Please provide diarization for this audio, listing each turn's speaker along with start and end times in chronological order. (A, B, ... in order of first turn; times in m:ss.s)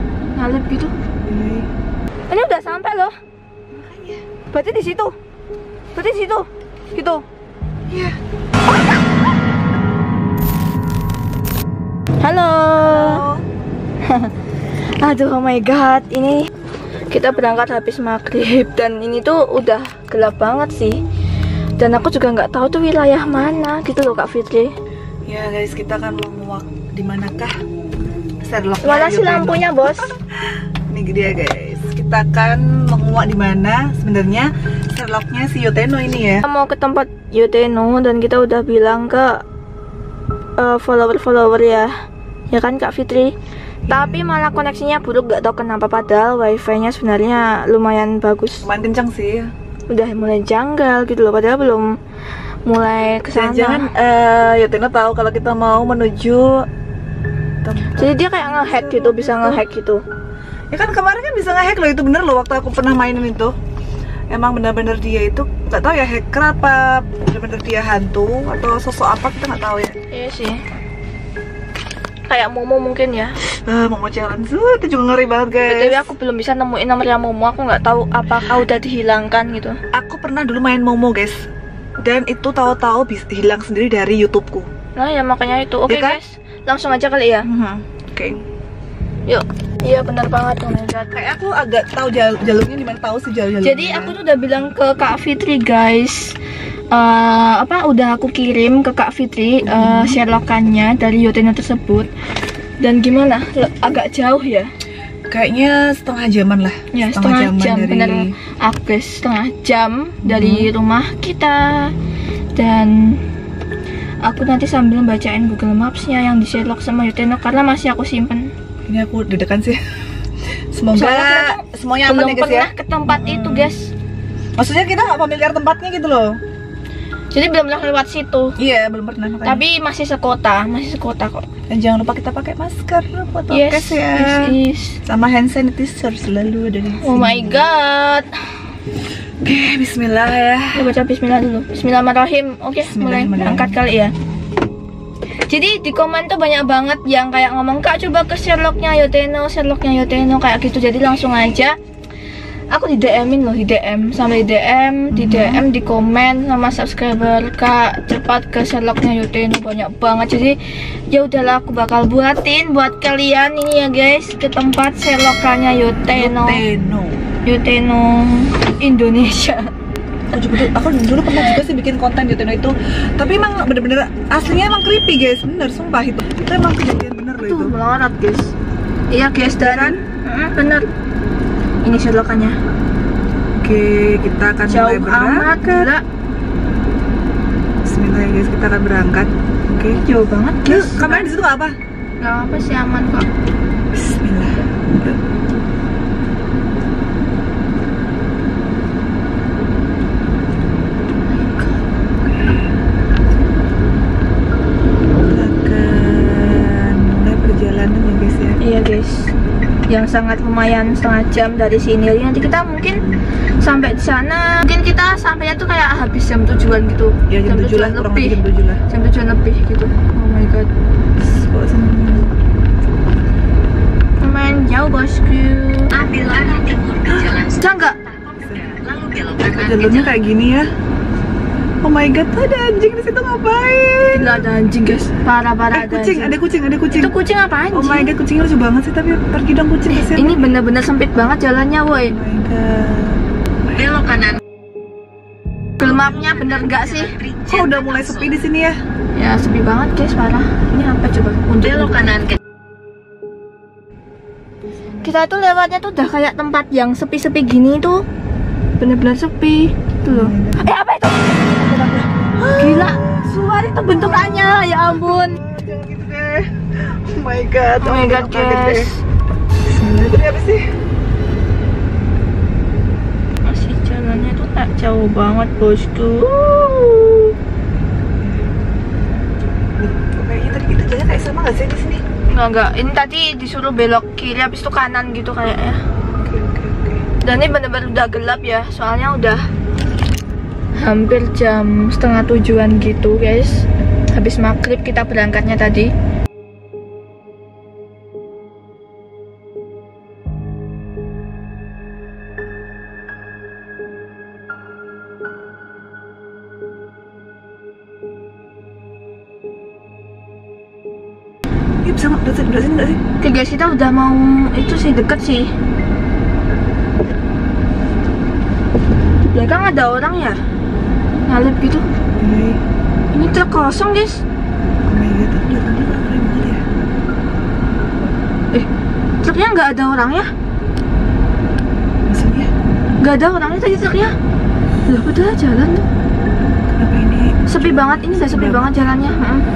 0:00.4-0:00.9 A
0:01.3-0:01.7 B
0:02.3-0:03.2 A
0:03.7-0:04.2 B
0:04.5-0:05.2 A
0:05.9-0:07.3 A
0:07.9-0:08.2 B
0:12.2-0:13.2 A
0:12.8-0:13.4 B
0:14.0-0:16.5 A
0:17.1-0:21.0 A
0:21.8-0:24.8 A
0:25.3-0:27.6 B
0:28.4-0:30.1 B
0:28.8-0:30.1 A
0:30.9-0:36.4 B
0:36.4-0:39.4 A
0:40.6-0:41.9 A
0:42.5-0:43.4 A
0:43.9-0:44.2 B
0:43.9-0:48.7 A
0:48.6-0:49.5 B
0:49.9-0:52.0 A
0:52.6-0:53.9 A
0:53.3-0:56.7 B
0:57.6-0:59.7 B
0:58.0-1:00.0 A
1:00.7-1:03.6 B
1:04.3-1:10.0 B
1:10.1-1:10.6 A
1:12.3-1:13.4 A
1:13.4-1:16.1 B
1:15.6-1:19.8 A
1:19.9-1:21.4 B
1:22.0-1:24.7 B
1:25.0-1:27.5 A
1:25.9-1:26.2 B
1:27.4-1:28.4 B
1:29.3-1:31.1 A
1:31.1-1:34.2 B
1:33.6-1:36.4 A
1:36.9-1:42.1 A
1:39.6-1:40.2 B
1:42.8-1:44.7 A
1:45.3-1:48.3 B
1:46.9-1:52.0 A
1:50.2-1:50.7 B
1:52.6-1:53.2 A
1:54.2-1:58.5 A
1:58.9-1:59.8 B
2:00.7-2:03.7 B
2:00.9-2:03.9 A
2:04.6-2:06.4 B
2:07.3-2:08.6 A
2:08.6-2:09.6 B
2:09.4-2:11.5 A
2:11.7-2:17.6 B
2:13.5-2:15.0 A
2:17.0-2:18.5 A
2:19.4-2:20.9 B
2:20.8-2:24.1 A
2:22.8-2:23.8 B
2:25.5-2:31.8 A
2:32.7-2:40.6 A
2:35.1-2:35.7 B
2:41.1-2:46.6 A
2:46.1-2:47.2 B
2:47.4-2:49.7 A
2:50.3-2:57.8 B
2:57.4-2:58.5 A
2:59.1-3:00.9 A
2:59.5-3:00.0 B
3:01.8-3:02.6 A
3:03.6-3:05.9 B
3:04.7-3:06.0 A
3:07.8-3:10.0 B
3:09.9-3:11.3 A
3:10.6-3:11.8 B
3:12.2-3:13.3 A
3:13.9-3:15.2 B
3:21.3-3:21.8 A
3:25.3-3:28.6 B
3:28.6-3:29.3 A
3:29.9-3:33.0 A
3:32.9-3:33.2 B
3:33.6-3:40.7 A
3:37.3-3:38.8 B
3:41.2-3:42.4 B
3:44.2-3:46.0 A
3:45.9-3:50.1 C
3:47.1-3:47.4 B
3:47.6-3:48.0 A
3:48.4-3:48.8 B
3:49.4-3:50.7 B
3:51.8-3:54.4 B
3:54.1-3:56.4 A
3:55.7-3:57.2 B
3:56.9-3:58.1 A
3:57.7-4:00.5 B
3:59.9-4:02.2 A
4:02.0-4:03.2 B
4:03.7-4:04.4 C
4:05.8-4:07.2 A
4:05.8-4:08.4 C
4:07.5-4:08.8 B
4:09.1-4:12.2 A
4:11.7-4:12.4 C
4:14.7-4:15.2 B
4:15.0-4:18.1 A
4:18.8-4:25.4 A
4:20.1-4:20.8 B
4:21.6-4:28.9 B
4:27.8-4:29.0 A
4:29.7-4:30.7 B
4:33.5-4:37.3 A
4:38.2-4:38.5 B
4:39.8-4:42.0 B
4:42.3-4:45.8 A
4:46.1-4:47.0 B
4:47.2-4:49.5 A
4:50.8-4:55.9 A
5:11.8-5:13.0 B
5:13.2-5:15.5 A
5:19.2-5:20.4 A
5:21.3-5:21.9 A
5:22.2-5:22.6 B
5:23.1-5:24.2 A
5:24.9-5:26.6 B
5:29.2-5:30.3 A
5:32.1-5:32.5 B
5:33.0-5:34.2 A
5:34.9-5:35.9 A
5:36.7-5:38.8 B
5:37.5-5:39.5 A